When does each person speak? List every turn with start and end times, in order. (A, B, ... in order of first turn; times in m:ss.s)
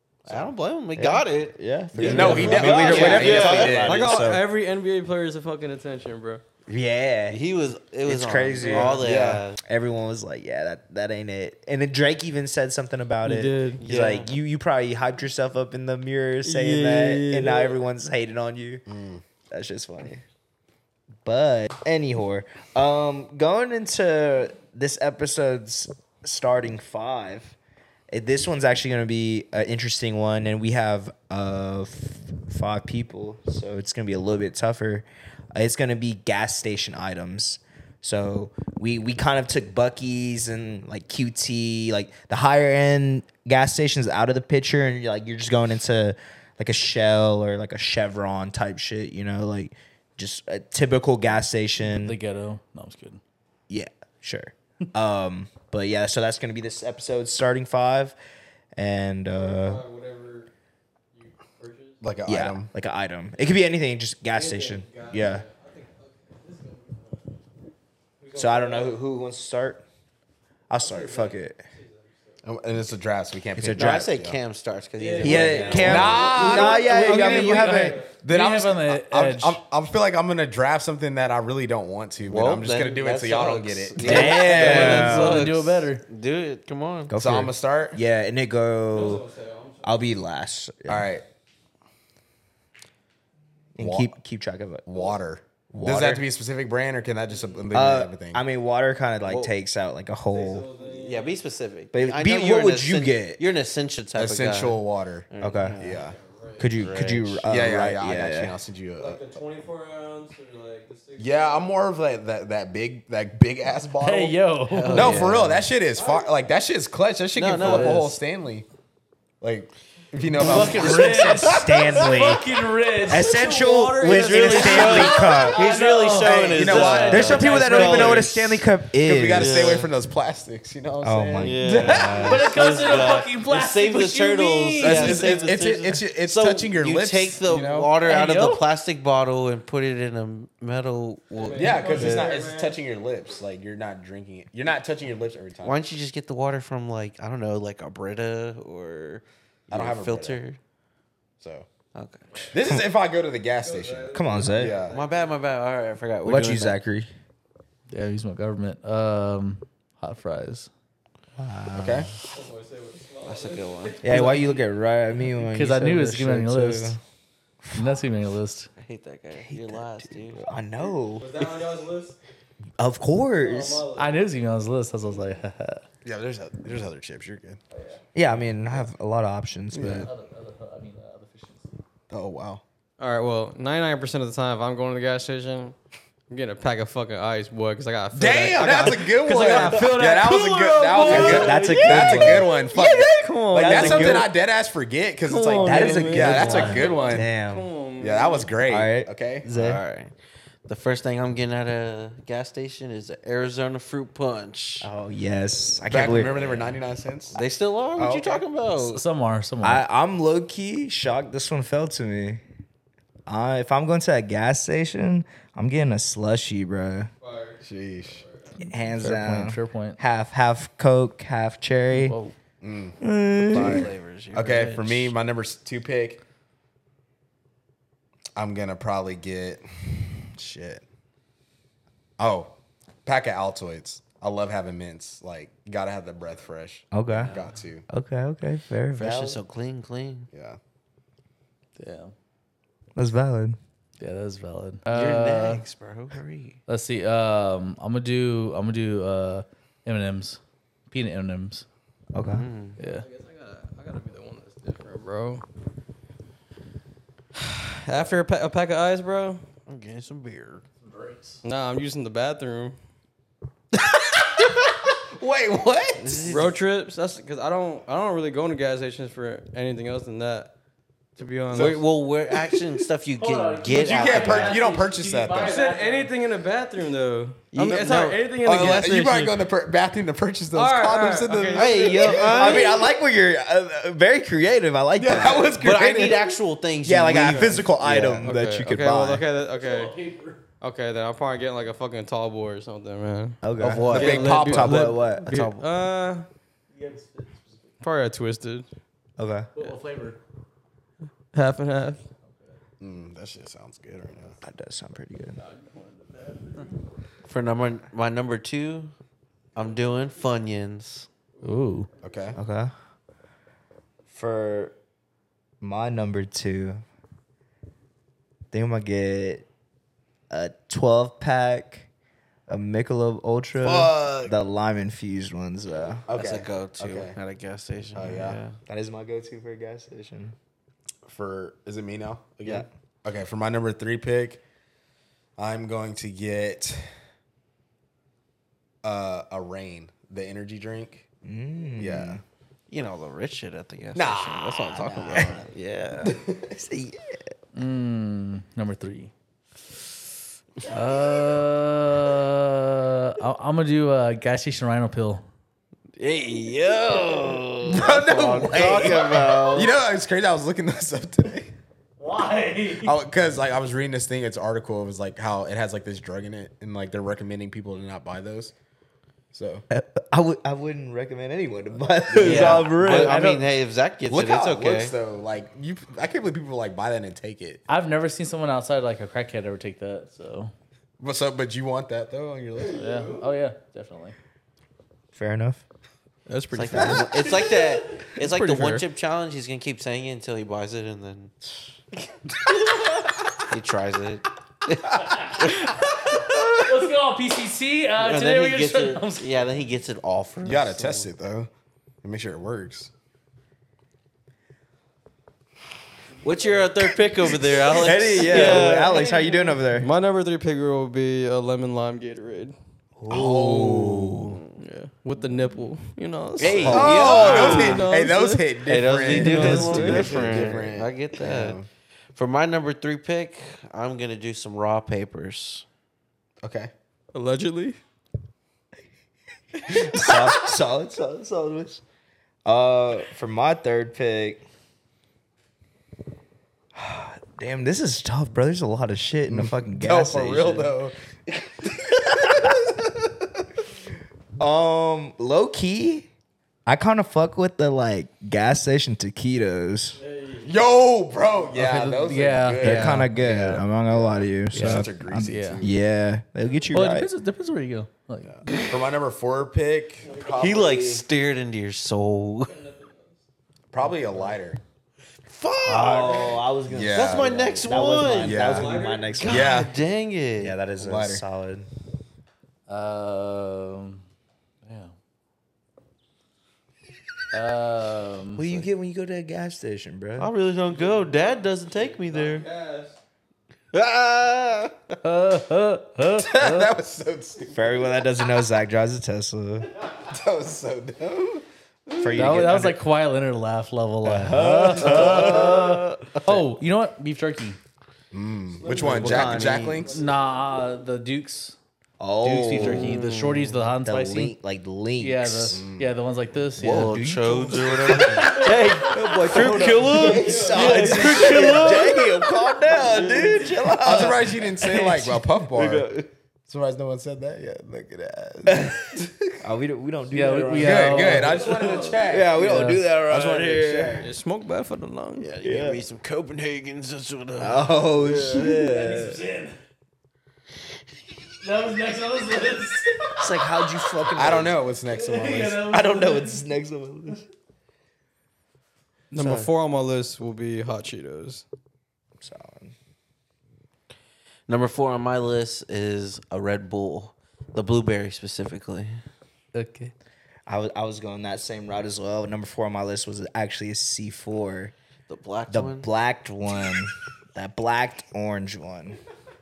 0:00.3-0:04.0 A
0:01.0-0:04.4 B
0:02.0-0:04.1 C
0:02.8-0:06.4 D
0:06.7-0:07.4 B
0:07.3-0:09.6 A
0:08.1-0:18.8 B
0:08.6-0:09.0 D
0:08.9-0:09.4 C
0:13.2-0:14.2 D
0:13.8-0:14.3 A
0:16.4-0:17.8 D
0:18.9-0:19.2 C
0:19.5-0:20.2 B
0:21.2-0:27.6 B
0:28.1-0:52.2 B
0:52.0-0:53.2 E
0:53.7-0:58.2 B
0:58.8-0:59.8 B
0:59.4-1:00.5 D
1:01.1-1:02.0 D
1:02.0-1:02.7 C
1:02.3-1:05.5 B
1:04.3-1:07.3 D
1:08.2-1:09.0 D
1:08.4-1:09.8 B
1:10.7-1:11.6 B
1:10.8-1:12.7 D
1:12.4-1:14.4 C
1:13.6-1:14.1 B
1:13.8-1:16.8 A
1:15.0-1:18.2 D
1:15.2-1:18.0 B
1:15.5-1:24.6 C
1:16.9-1:19.6 E
1:22.2-1:27.2 A
1:23.5-1:25.7 D
1:24.0-1:25.4 B
1:24.5-1:26.0 E
1:27.1-1:29.2 B
1:27.2-1:28.0 C
1:28.9-1:30.2 D
1:29.8-1:31.1 B
1:30.9-1:31.2 C
1:33.8-1:34.9 B
1:33.8-1:34.1 C
1:34.9-1:38.4 C
1:35.7-1:36.3 B
1:37.3-1:37.8 D
1:37.7-1:40.7 B
1:39.3-1:39.5 A
1:40.3-1:41.4 D
1:40.8-1:46.1 A
1:41.9-1:43.4 B
1:44.2-1:45.3 C
1:45.4-1:45.8 B
1:45.8-1:46.2 C
1:46.0-1:46.7 D
1:46.6-1:48.6 B
1:46.8-1:47.5 A
1:47.5-1:49.2 C
1:49.0-1:51.7 D
1:51.2-1:54.4 C
1:54.0-1:55.2 E
1:54.7-1:55.6 A
1:54.9-1:58.7 C
1:56.0-1:56.3 D
1:57.4-1:58.2 A
1:59.4-2:01.6 C
2:00.4-2:02.4 B
2:00.4-2:03.4 E
2:01.2-2:01.9 A
2:03.0-2:05.7 B
2:03.1-2:05.8 D
2:04.1-2:08.6 A
2:04.3-2:08.2 E
2:06.3-2:08.3 C
2:07.1-2:09.8 B
2:08.9-2:12.4 C
2:09.3-2:09.9 A
2:11.0-2:12.6 B
2:11.4-2:22.3 A
2:12.1-2:15.4 E
2:14.8-2:17.9 C
2:18.0-2:18.6 E
2:21.4-2:22.8 D
2:21.6-2:25.8 C
2:25.6-2:30.6 A
2:29.7-2:30.4 C
2:31.4-2:31.7 C
2:32.0-2:32.5 A
2:32.5-2:35.0 C
2:33.6-2:35.5 D
2:34.1-2:34.8 B
2:34.9-2:36.8 A
2:36.2-2:37.1 B
2:37.9-2:40.7 E
2:41.4-2:42.1 B
2:41.7-2:42.1 C
2:42.3-2:44.6 D
2:43.2-2:44.3 A
2:44.0-2:47.0 B
2:45.5-2:47.0 E
2:47.6-2:47.9 B
2:47.7-2:48.7 E
2:48.8-2:50.5 A
2:49.4-2:51.4 B
2:51.1-2:52.2 D
2:52.8-2:53.8 B
2:53.4-2:54.2 D
2:54.0-2:55.8 E
2:56.0-2:57.6 C
2:58.1-3:00.1 B
2:59.7-3:00.1 C
3:00.0-3:01.8 E
3:02.1-3:02.6 C
3:03.0-3:05.8 D
3:06.3-3:14.2 D
3:08.1-3:17.3 C
3:11.1-3:12.6 B
3:13.5-3:14.3 B
3:13.6-3:13.9 A
3:15.2-3:18.5 D
3:15.7-3:17.7 B
3:16.2-3:16.7 A
3:18.0-3:19.5 C
3:18.7-3:19.8 B
3:19.5-3:20.1 A
3:20.7-3:24.9 A
3:24.8-3:26.8 B
3:25.9-3:27.4 C
3:27.4-3:29.0 A
3:28.0-3:28.4 C
3:28.8-3:29.8 E
3:29.6-3:32.4 B
3:33.3-3:37.1 B
3:37.2-3:38.7 D
3:37.6-3:38.2 C
3:38.6-3:42.2 B
3:38.9-3:40.0 E
3:41.9-3:42.4 E
3:42.6-3:43.0 C
3:43.0-3:43.9 B
3:43.4-3:45.2 A
3:43.5-3:46.2 C
3:48.4-3:50.8 C
3:52.2-3:57.9 C
3:56.9-3:57.3 B
3:57.1-3:57.6 A
3:57.9-3:59.4 B
3:58.9-4:00.3 A
4:00.3-4:00.6 C
4:01.8-4:02.1 E
4:03.0-4:03.6 B
4:04.0-4:05.6 E
4:04.9-4:06.6 A
4:06.7-4:11.6 E
4:12.1-4:12.5 B
4:12.2-4:12.8 A
4:12.8-4:13.0 E
4:12.8-4:15.4 D
4:17.7-4:19.4 D
4:19.7-4:20.6 A
4:20.8-4:21.4 E
4:21.4-4:22.8 D
4:23.9-4:24.3 C
4:24.9-4:26.2 C
4:26.0-4:26.6 A
4:26.2-4:30.5 D
4:31.2-4:31.8 D
4:31.5-4:31.8 C
4:31.5-4:34.6 A
4:33.2-4:36.1 E
4:33.8-4:35.6 C
4:35.4-4:39.5 D
4:37.5-4:38.8 A
4:38.4-4:42.6 C
4:40.5-4:42.7 D
4:41.5-4:42.8 A
4:42.3-4:46.2 B
4:45.0-4:46.2 C
4:45.4-4:48.3 A
4:46.8-4:49.3 B
4:47.1-4:47.6 D
4:48.2-4:50.0 D
4:49.6-4:50.4 E
4:50.6-4:53.4 D
4:53.4-4:55.4 B
4:53.6-4:55.7 A
4:53.9-4:55.0 C
4:53.9-4:56.3 D
4:56.8-4:57.7 E
4:57.8-4:58.7 D
4:59.2-4:59.5 B
4:59.6-5:00.2 E
5:01.3-5:02.1 D
5:02.8-5:04.4 C
5:04.4-5:05.4 B
5:05.4-5:06.6 D
5:07.2-5:08.9 A
5:09.6-5:11.1 A
5:11.4-5:12.3 D
5:11.4-5:11.9 E
5:12.0-5:12.4 C
5:12.4-5:12.7 B
5:14.1-5:14.7 B
5:15.6-5:16.8 B
5:18.5-5:19.5 B
5:20.3-5:21.9 B
5:22.5-5:26.1 B
5:23.6-5:24.4 C
5:26.1-5:27.2 C
5:26.1-5:28.6 A
5:28.0-5:28.4 C
5:28.7-5:30.4 B
5:31.1-5:34.4 C
5:35.4-5:36.9 C
5:38.8-5:41.1 C
5:41.2-5:42.2 B
5:41.8-5:42.2 C
5:42.7-5:46.2 A
5:44.0-5:45.4 C
5:44.9-5:45.4 B
5:46.0-5:47.2 B
5:47.5-5:49.1 E
5:50.7-5:55.2 E
5:56.0-5:59.7 A
5:57.7-5:59.4 B
5:57.8-6:01.5 C
6:02.0-6:03.0 E
6:02.8-6:08.5 C
6:09.3-6:09.6 C
6:09.7-6:13.2 B
6:12.1-6:12.6 C
6:12.2-6:15.0 A
6:12.2-6:13.5 E
6:14.1-6:17.6 C
6:17.7-6:20.5 E
6:21.0-6:22.8 C
6:22.6-6:23.2 D
6:22.7-6:24.2 E
6:25.1-6:25.6 B
6:26.3-6:28.8 D
6:26.5-6:31.3 A
6:33.5-6:35.6 A
6:35.0-6:35.6 E
6:36.6-6:39.4 E
6:38.0-6:41.1 A
6:40.4-6:41.5 C
6:42.0-6:42.9 C
6:46.2-6:46.7 D
6:46.2-6:48.9 A
6:47.7-6:49.9 B
6:48.1-6:52.6 D
6:53.0-6:54.4 B
6:53.1-6:54.3 C
6:54.3-6:54.6 A
6:54.6-6:58.4 D
6:56.4-6:57.9 A
6:56.4-7:01.7 C
6:56.7-6:56.9 B
6:58.6-7:01.6 A
6:59.1-7:00.3 E
6:59.2-7:00.6 B
7:02.2-7:05.6 A
7:06.4-7:06.7 C
7:07.1-7:07.8 D
7:09.6-7:10.4 D
7:09.7-7:11.8 B
7:12.4-7:14.4 B
7:16.8-7:20.7 B
7:19.3-7:22.6 C
7:22.2-7:22.5 B
7:24.4-7:26.1 B
7:26.7-7:30.0 B
7:30.0-7:30.5 D
7:30.4-7:33.2 C
7:31.5-7:33.6 E
7:32.6-7:37.1 B
7:34.0-7:35.8 C
7:34.5-7:35.6 E
7:36.7-7:38.7 E
7:38.3-7:41.0 C
7:40.0-7:40.8 D
7:40.4-7:42.6 A
7:42.5-7:43.2 D
7:43.7-7:44.6 C
7:45.3-7:46.4 A
7:45.6-7:49.6 B
7:46.7-7:49.7 C
7:46.9-7:48.6 A
7:48.3-7:49.4 D
7:49.2-7:50.6 A
7:50.4-7:51.7 B
7:50.8-7:51.2 C
7:52.7-7:54.0 E
7:54.6-7:54.9 E
7:57.3-7:58.6 E
7:58.4-8:00.3 B
8:00.2-8:02.5 A
8:00.7-8:03.0 D
8:03.7-8:05.0 A
8:05.0-8:06.8 E
8:06.2-8:07.7 C
8:07.5-8:09.7 B
8:10.0-8:12.1 C
8:12.0-8:12.8 B
8:12.1-8:17.6 E
8:14.0-8:15.8 B
8:14.8-8:15.6 C
8:15.1-8:15.7 A
8:18.1-8:20.0 C
8:18.6-8:20.2 D
8:18.7-8:19.8 B
8:19.9-8:21.6 E
8:22.0-8:22.9 B
8:22.2-8:24.4 E
8:22.6-8:23.6 A
8:23.8-8:25.6 B
8:25.0-8:27.0 E
8:25.5-8:25.9 C
8:26.6-8:35.1 B
8:26.6-8:33.6 A
8:28.3-8:31.0 D
8:28.4-8:28.8 E
8:30.9-8:31.5 E
8:33.8-8:39.3 C
8:35.5-8:36.1 A
8:38.5-8:38.8 B
8:39.4-8:44.1 B
8:40.1-8:42.8 E
8:40.6-8:42.5 C
8:41.5-8:42.0 D
8:43.1-8:44.1 C
8:44.0-8:45.3 D
8:45.2-8:48.5 A
8:45.4-8:45.8 B
8:47.4-8:49.2 B
8:48.3-8:49.6 E
8:51.4-8:53.5 E
8:53.2-8:54.6 B
8:54.1-8:55.7 C
8:54.9-8:56.5 E
8:55.7-8:57.2 B
8:59.1-9:01.4 D
8:59.2-8:59.5 B
9:02.2-9:02.7 B
9:04.5-9:09.0 A
9:09.5-9:09.9 E
9:10.5-9:14.7 B
9:15.1-9:15.9 A
9:15.5-9:19.0 B